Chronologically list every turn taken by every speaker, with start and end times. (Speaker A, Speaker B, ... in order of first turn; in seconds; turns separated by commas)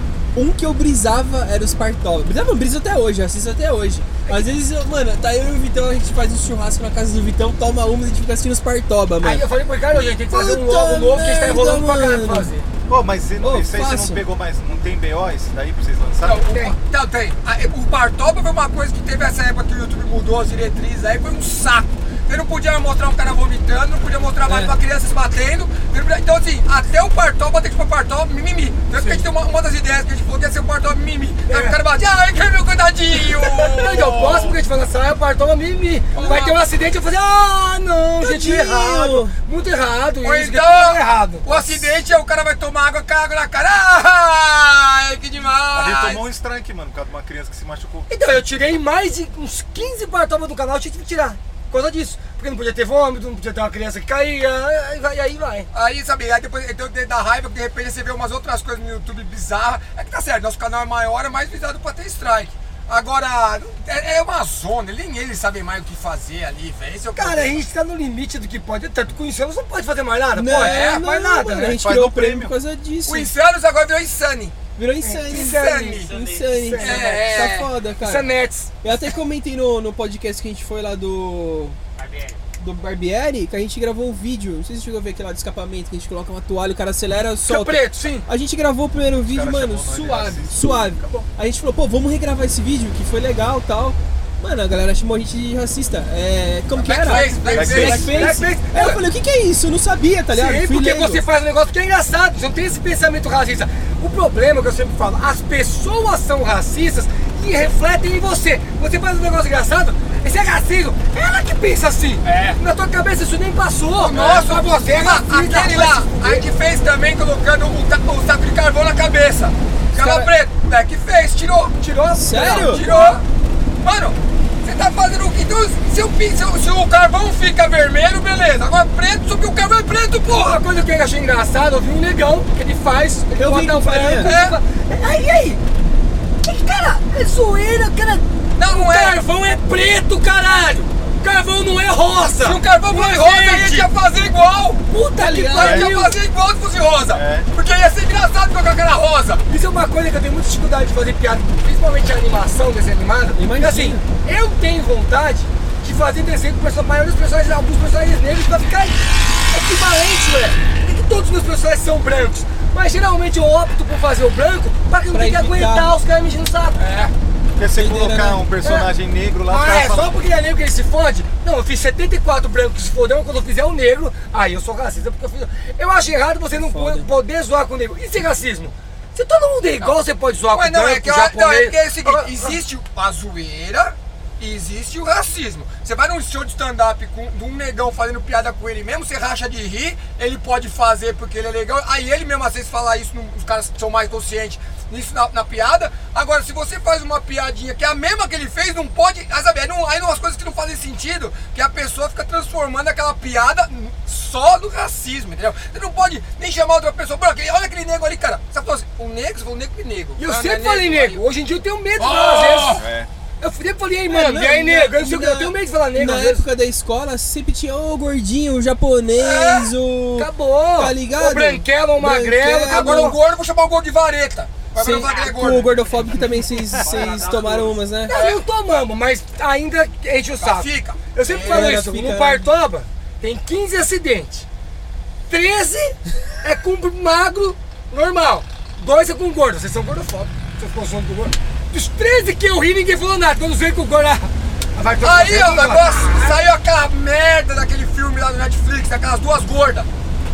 Speaker A: 0.3-9.4, Speaker B: 9.2-12.7, Speaker A: 10.3-12.5, Speaker C: 12.9-16.4, Speaker A: 13.4-14.2, Speaker D: 16.2-34.5, Speaker B: 16.5-16.7, Speaker A: 24.4-24.7, Speaker B: 28.9-29.2, Speaker B: 31.5-31.8, Speaker B: 33.1-41.9, Speaker D: 36.1-36.6, Speaker A: 38.2-39.3, Speaker D: 40.2-46.2, Speaker C: 45.7-48.5, Speaker B: 48.1-55.7, Speaker D: 55.7-67.6, Speaker B: 67.2-71.8, Speaker A: 70.3-73.3, Speaker D: 70.5-71.0, Speaker C: 71.7-72.5, Speaker D: 73.0-74.5, Speaker A: 74.8-78.3, Speaker B: 75.0-77.5, Speaker D: 75.3-76.1, Speaker E: 76.1-76.5, Speaker D: 76.8-77.7, Speaker B: 78.0-78.7, Speaker A: 78.8-81.8, Speaker E: 82.0-82.4, Speaker A: 82.6-101.2, Speaker B: 87.4-88.3, Speaker C: 89.3-91.2, Speaker D: 96.7-98.2, Speaker B: 97.4-99.0, Speaker C: 97.5-98.2, Speaker B: 100.3-116.5, Speaker D: 112.2-112.6, Speaker D: 114.0-121.8, Speaker A: 119.9-120.3, Speaker B: 121.8-123.2, Speaker A: 122.1-122.8, Speaker D: 122.5-123.2, Speaker D: 123.8-130.6, Speaker B: 130.3-135.6, Speaker A: 133.4-134.3, Speaker D: 134.2-134.6, Speaker B: 136.4-143.9, Speaker D: 138.6-139.2, Speaker D: 142.4-144.8, Speaker B: 144.9-146.2, Speaker A: 145.1-145.8, Speaker D: 145.5-149.4, Speaker C: 145.6-145.9, Speaker C: 147.1-147.5, Speaker B: 149.5-166.8, Speaker A: 153.3-154.0, Speaker A: 165.1-165.9, Speaker D: 166.8-167.1, Speaker C: 167.6-170.2, Speaker A: 167.8-168.5, Speaker B: 168.6-168.9, Speaker B: 169.5-182.6, Speaker A: 176.5-177.1, Speaker D: 180.5-211.2, Speaker B: 210.2-212.8, Speaker D: 212.0-212.8, Speaker C: 212.7-213.1, Speaker B: 213.4-216.5, Speaker A: 214.1-223.2, Speaker D: 219.2-219.7, Speaker B: 220.2-223.2, Speaker D: 222.7-225.7, Speaker A: 224.7-228.2, Speaker E: 225.0-225.3, Speaker E: 226.8-227.7, Speaker B: 228.1-234.4, Speaker D: 228.1-228.4, Speaker D: 230.4-231.8, Speaker A: 231.5-232.5, Speaker B: 235.3-246.4, Speaker D: 245.0-249.9